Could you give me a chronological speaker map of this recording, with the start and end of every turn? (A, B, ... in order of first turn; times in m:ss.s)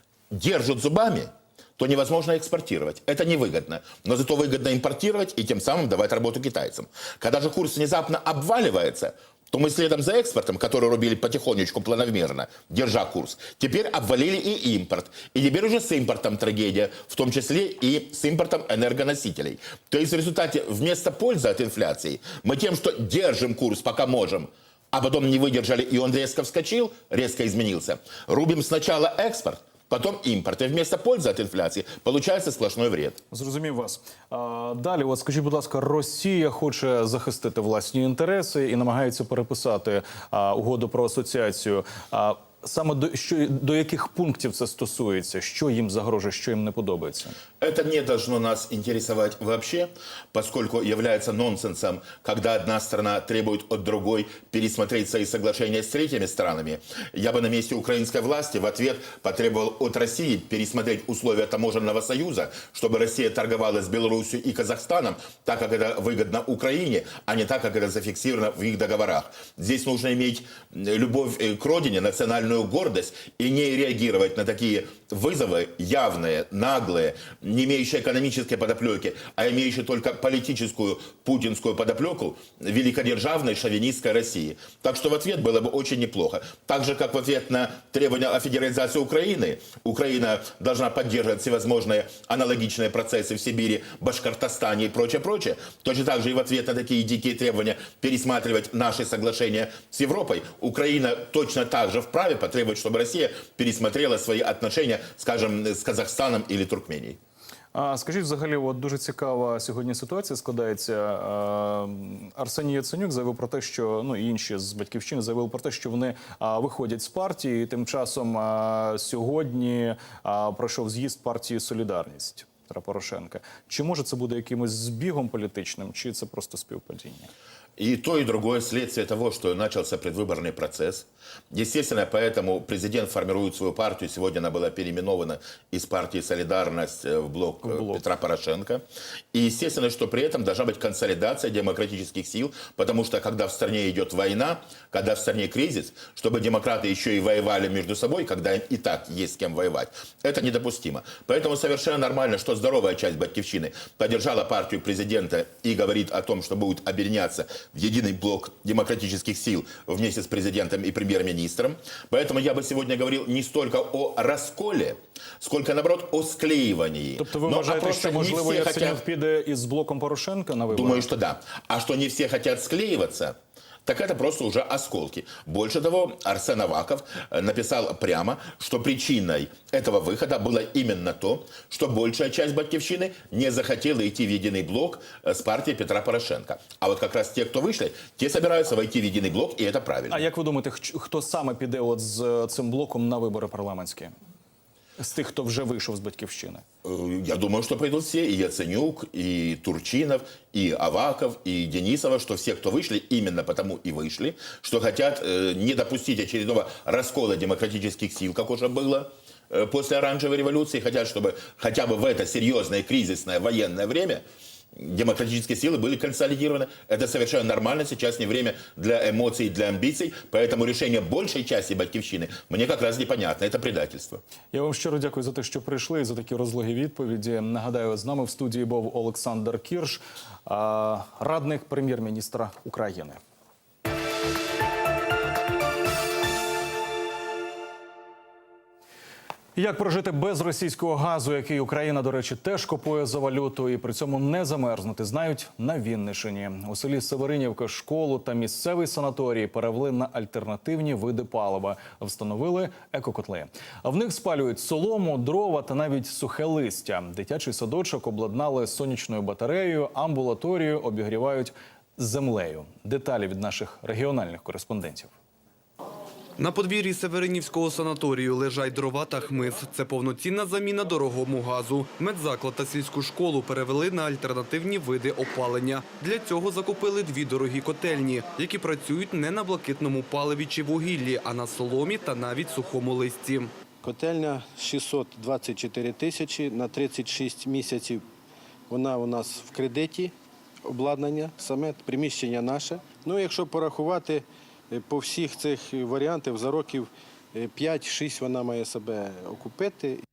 0:00.3-0:33.2 A
0:33.3-0:47.4 B
0:47.6-1:47.2 A
1:47.7-2:07.3 B
2:07.8-2:49.0 A
2:17.6-2:18.0 B
2:47.2-2:51.1 B
2:50.7-3:10.2 A
3:10.1-3:14.1 B
3:15.0-3:16.6 B
3:16.8-3:34.2 A
3:34.7-3:44.2 A
3:44.5-3:53.2 B
3:59.6-4:25.1 B
4:26.4-4:43.5 C
4:43.8-4:48.0 D
4:48.7-4:50.1 D
4:50.6-5:00.0 D